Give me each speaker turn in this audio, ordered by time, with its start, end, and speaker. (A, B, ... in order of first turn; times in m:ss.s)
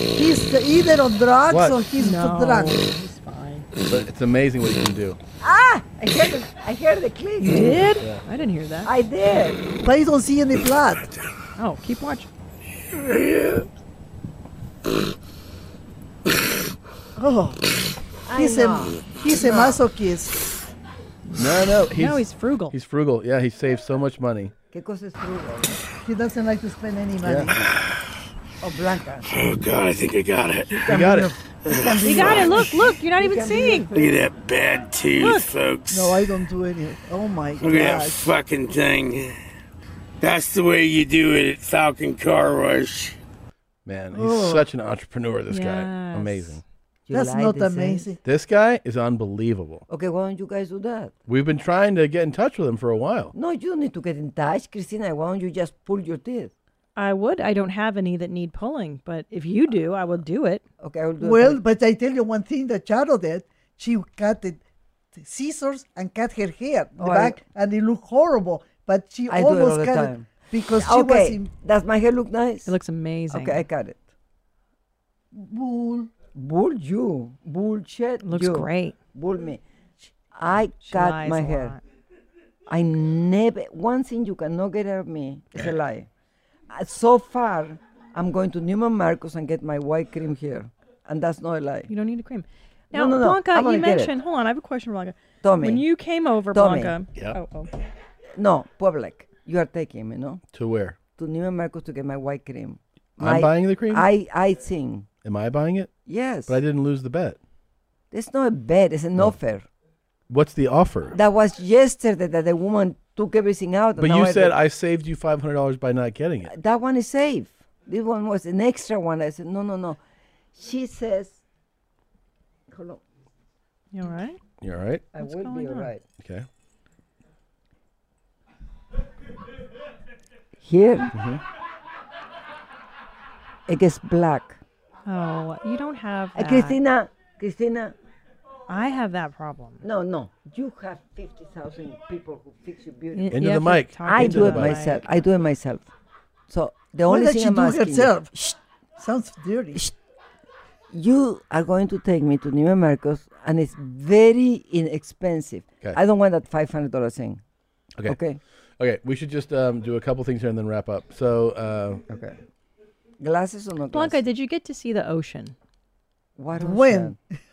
0:00.1-0:02.8 A
0:01.5-0:01.8 B
0:02.0-0:03.7 C
0:03.9-0:05.2 B
0:05.4-0:07.8 D
0:07.4-0:08.9 C
0:08.8-0:09.6 D
0:09.8-0:11.1 A
0:11.6-0:12.3 C
0:12.9-0:13.6 E
0:17.2-0:17.6 A
0:18.3-0:19.8 D
0:18.3-0:20.3 A
0:21.4-0:24.5 B
0:22.0-0:22.8 C
0:24.7-0:25.8 D
0:26.0-0:27.6 A
0:27.2-0:27.5 B
0:28.6-0:29.3 D
0:29.3-0:30.7 E
0:30.7-0:34.1 D
0:30.9-0:31.3 B
0:31.8-0:32.4 A
0:32.0-0:33.9 C
0:33.9-0:36.2 E
0:35.2-0:35.5 C
0:35.9-0:38.3 A
0:37.6-0:39.3 E
0:40.2-0:43.2 E
0:43.8-0:46.6 B
0:44.1-0:44.7 A
0:45.5-0:46.6 C
0:47.1-0:48.1 D
0:47.1-0:48.2 A
0:48.2-0:49.8 B
0:49.9-0:51.1 D
0:51.3-0:53.3 B
0:53.3-0:56.5 D
0:57.0-1:00.6 C
1:00.8-1:01.6 D
1:01.2-1:04.6 A
1:05.2-1:11.5 A
1:07.0-1:07.4 D
1:09.3-1:12.7 D
1:12.6-1:13.6 C
1:13.3-1:14.0 D
1:15.3-1:16.2 A
1:16.3-1:19.6 D
1:18.2-1:19.0 C
1:20.3-1:21.8 D
1:20.8-1:21.8 C
1:22.7-1:26.1 D
1:26.7-1:31.9 D
1:31.9-1:37.7 C
1:32.9-1:34.1 D
1:35.4-1:35.8 D
1:36.5-1:37.0 D
1:38.4-1:40.4 D
1:40.5-1:41.0 B
1:41.2-1:45.1 D
1:43.2-1:44.1 B
1:45.2-1:45.9 B
1:46.1-1:46.6 D
1:46.5-1:47.4 B
1:48.1-1:49.7 D
1:50.3-1:51.2 B
1:51.1-1:54.6 D
1:54.0-1:56.5 B
1:56.4-2:00.0 D
2:00.5-2:01.4 D
2:02.7-2:03.0 D
2:03.9-2:04.4 C
2:04.6-2:05.0 B
2:05.1-2:06.0 D
2:05.2-2:05.9 C
2:06.2-2:06.5 B
2:10.6-2:11.1 D
2:11.1-2:11.4 B
2:13.7-2:14.6 D
2:15.1-2:16.8 C
2:16.4-2:18.0 D
2:18.7-2:19.8 C
2:19.8-2:23.4 D
2:23.1-2:25.1 C
2:23.3-2:24.8 B
2:24.1-2:25.9 D
2:26.5-2:28.5 D
2:27.0-2:28.4 A
2:29.0-2:29.8 A
2:30.9-2:37.4 D
2:38.1-2:38.4 D
2:38.8-2:42.0 B
2:42.1-2:42.4 D
2:43.2-2:44.2 D
2:43.9-2:45.6 C
2:46.4-2:47.2 D
2:46.5-2:47.2 A